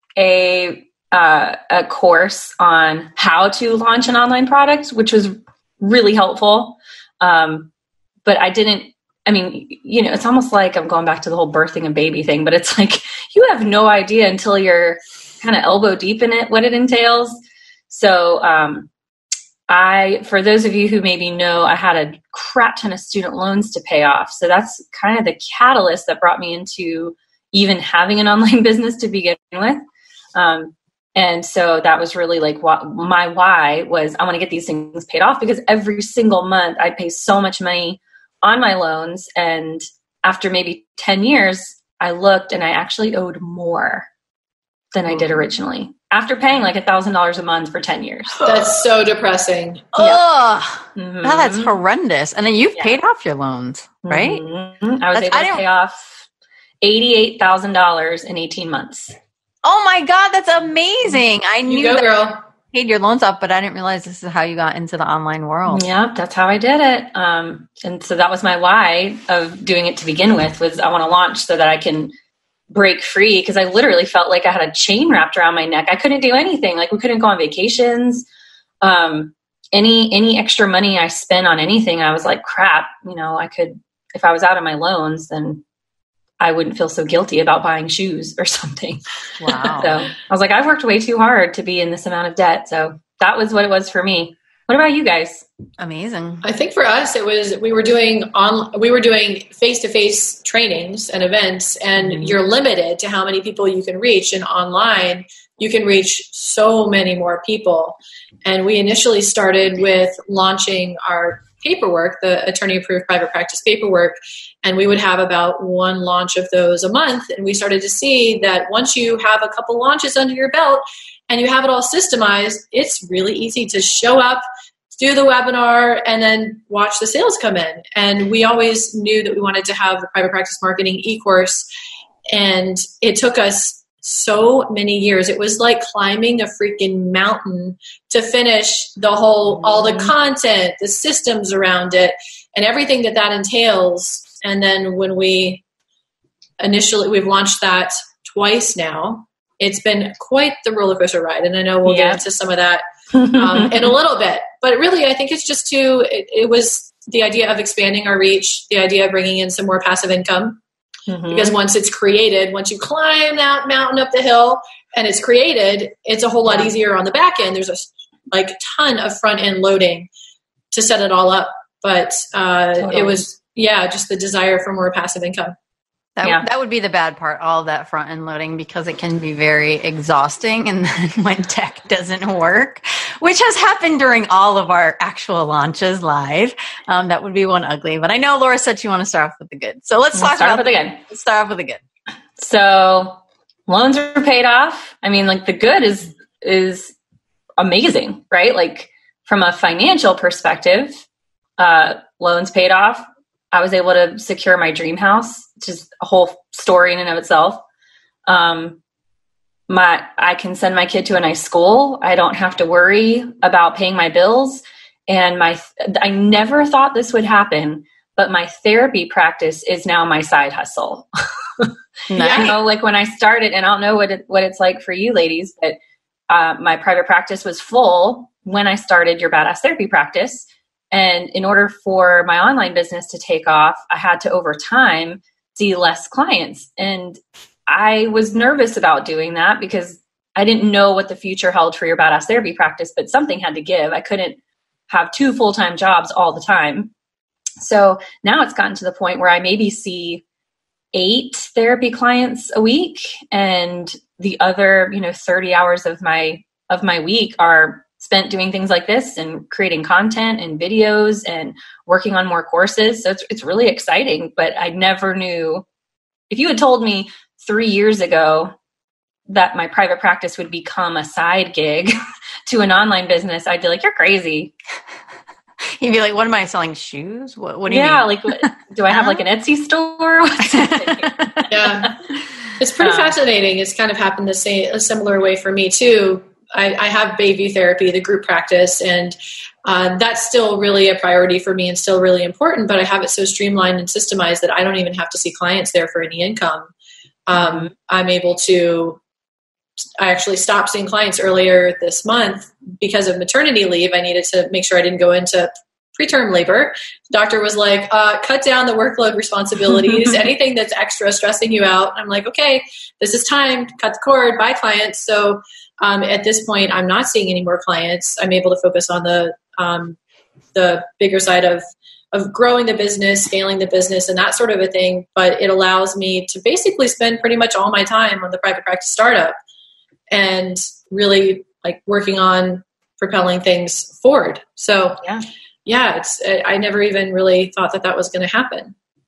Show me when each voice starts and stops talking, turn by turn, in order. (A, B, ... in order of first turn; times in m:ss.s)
0:00.2-0:07.7 A
0:08.2-0:17.4 A
0:17.9-0:18.9 A
0:19.7-0:29.8 A
0:30.3-0:44.1 A
0:44.9-0:48.4 A
0:48.4-0:50.2 B
0:49.9-0:54.4 C
0:51.0-0:51.7 A
0:54.0-0:56.2 A
0:55.1-0:55.6 C
0:56.8-0:59.1 A
0:59.6-1:02.1 C
1:01.7-1:02.4 B
1:02.7-1:05.8 C
1:05.7-1:12.1 A
1:12.7-1:18.2 A
1:18.8-1:25.6 A
1:26.4-1:35.4 A
1:29.4-1:30.0 C
1:35.8-1:36.4 C
1:36.4-2:04.4 B
2:04.9-2:11.6 B
2:12.3-2:25.6 B
2:26.6-2:32.8 B
2:31.8-2:32.2 A
2:33.1-2:33.9 A
2:33.3-2:40.6 B
2:41.1-2:41.6 A
2:41.3-2:50.1 B
2:50.7-2:55.5 B
2:52.8-2:53.2 A
2:56.2-3:11.8 C
3:10.1-3:11.0 A
3:12.4-3:16.9 A
3:17.6-3:21.0 A
3:21.6-3:27.6 A
3:28.3-3:28.8 A
3:29.7-3:41.0 A
3:42.1-3:42.5 C
3:42.2-3:42.5 B
3:42.2-3:45.8 A
3:46.3-4:04.4 A
4:04.9-4:06.9 A
4:07.6-4:10.2 A
4:10.9-4:25.6 A
4:26.3-4:28.5 A
4:29.3-4:31.9 A
4:32.5-4:34.5 A
4:35.8-4:39.2 C
4:37.7-4:41.9 A
4:40.4-4:41.5 C
4:41.5-4:42.0 B
4:42.6-4:56.7 B
4:42.8-4:43.1 A
4:57.3-4:59.0 B
4:57.3-4:57.7 A
5:00.0-5:20.0 B
5:20.5-5:29.3 B
5:30.1-5:35.0 B
5:35.6-5:38.7 B